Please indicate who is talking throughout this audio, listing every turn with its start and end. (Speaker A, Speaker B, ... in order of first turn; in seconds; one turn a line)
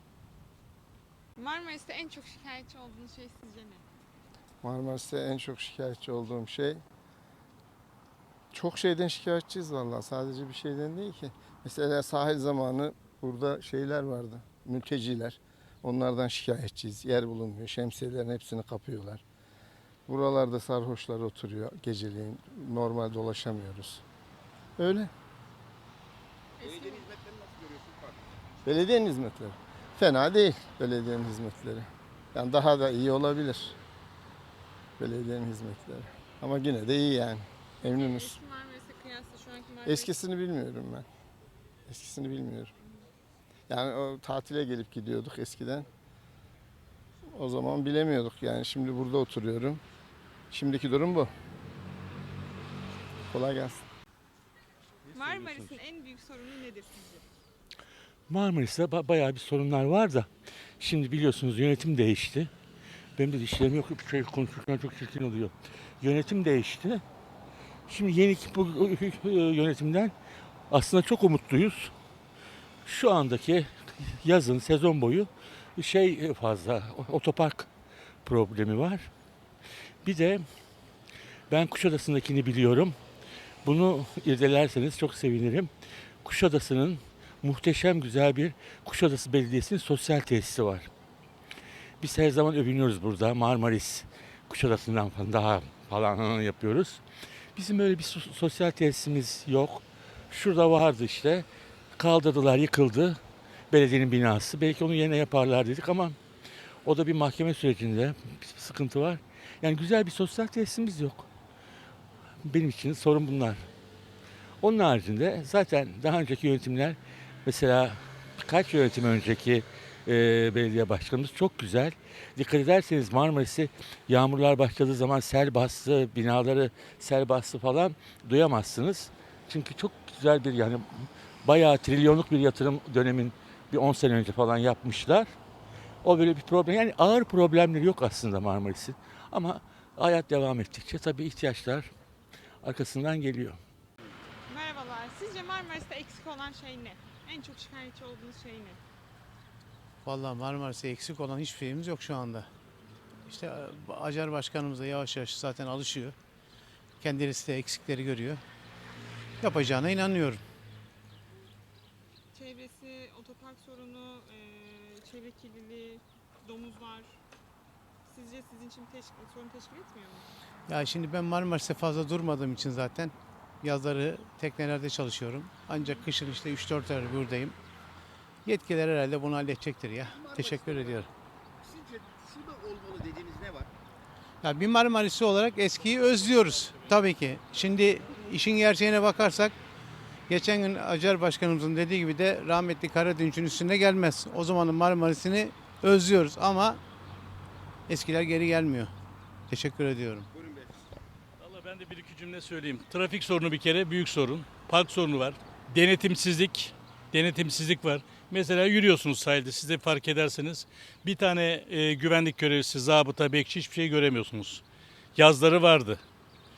Speaker A: 1.4-3.8
Speaker B: 4.6-6.8
Speaker B: 8.5-19.2
Speaker B: 20.1-24.0
Speaker B: 24.8-25.1
Speaker C: 26.6-28.7
Speaker B: 28.6-33.7
Speaker B: 35.0-38.4
Speaker A: 37.9-40.2
Speaker B: 39.8-41.0
Speaker B: 41.9-42.7
Speaker B: 43.7-45.9
Speaker B: 47.3-49.8
Speaker B: 50.5-51.3
Speaker B: 53.3-53.8
Speaker A: 55.1-57.3
Speaker D: 55.1-55.8
Speaker D: 58.3-62.5
Speaker D: 63.2-67.0
Speaker D: 67.9-70.1
Speaker D: 70.7-71.9
Speaker D: 72.8-77.7
Speaker D: 78.2-79.1
Speaker D: 80.0-80.4
Speaker D: 81.5-82.9
Speaker D: 83.6-85.7
Speaker D: 86.2-90.9
Speaker D: 92.0-97.0
Speaker D: 97.5-103.2
Speaker D: 103.7-106.2
Speaker D: 106.8-111.3
Speaker D: 112.4-113.7
Speaker D: 114.6-135.3
Speaker D: 136.0-141.9
Speaker D: 142.6-143.6
Speaker A: 144.4-148.8
Speaker E: 150.0-152.5
Speaker E: 153.3-156.2
Speaker E: 157.0-158.4
Speaker E: 159.4-160.4
Speaker A: 162.3-167.2
Speaker A: 168.1-170.3
Speaker E: 170.7-177.6
Speaker E: 178.4-181.1
Speaker C: 180.0-180.9
Speaker C: 181.6-183.7
Speaker E: 184.4-189.5
Speaker E: 190.3-196.8
Speaker E: 197.9-198.9
Speaker E: 199.5-200.3
Speaker C: 200.3-200.8
Speaker D: 201.4-202.0
Speaker F: 201.6-214.6
Speaker F: 215.2-216.0